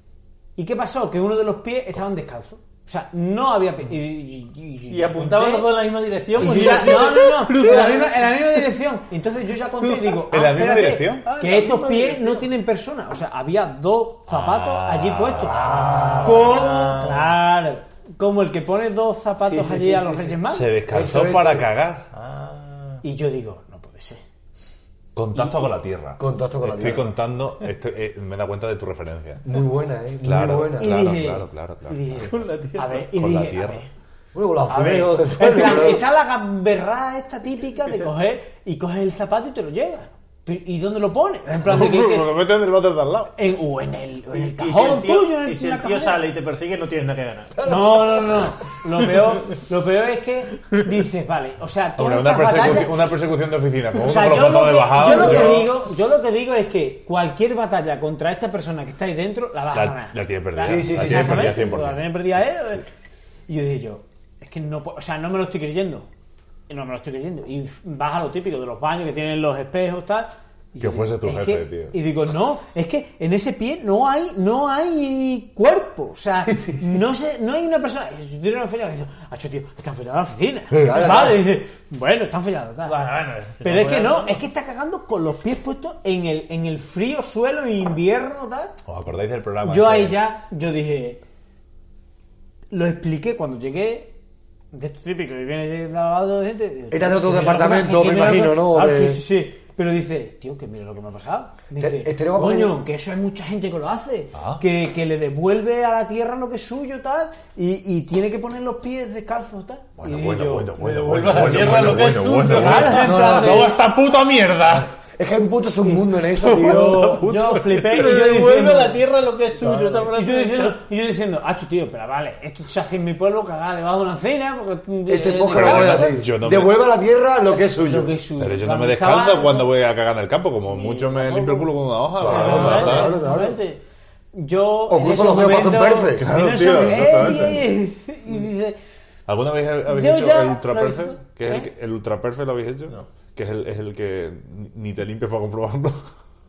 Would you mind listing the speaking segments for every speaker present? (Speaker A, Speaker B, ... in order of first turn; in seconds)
Speaker A: 0.6-5.7, 6.3-15.6, 16.2-20.7, 23.0-24.2, 30.8-33.9, 34.7-42.4, 43.3-46.2, 47.6-53.1, 54.0-62.9, 63.5-66.1, 66.7-83.0, 83.6-88.8, 89.6-91.2, 92.7-94.1, 94.7-113.8, 116.5-119.0, 120.1-126.2, 127.7-129.7, 130.7-133.8, 134.3-138.8, 139.9-141.7
Speaker B: 4.9-8.6, 9.8-10.2, 11.2-12.5, 15.5-17.3, 22.1-23.0, 32.2-33.0, 37.8-38.1, 44.3-47.6, 82.8-84.4, 110.8-113.4, 117.3-120.8, 132.3-133.3
Speaker C: 6.4-7.0, 15.4-16.6, 19.4-21.7, 26.2-27.1, 29.4-31.0, 34.3-36.0, 47.6-48.1, 55.1-55.5, 60.6-61.7, 76.5-76.9, 80.8-81.4, 96.9-99.2, 101.8-102.8, 112.8-113.8, 115.0-117.2, 119.6-120.1, 125.0-128.1, 132.2-133.6, 134.9-136.3, 137.2-137.4
Speaker D: 10.3-11.2, 14.3-16.6, 20.5-22.1, 25.1-29.4, 30.2-32.3, 33.1-33.8, 41.6-43.3, 52.0-55.7, 59.7-62.5, 70.8-71.9, 88.8-90.2, 104.3-104.6, 110.0-114.9, 116.3-118.0, 125.5-126.8, 128.4-133.2, 136.1-137.7, 139.3-146.0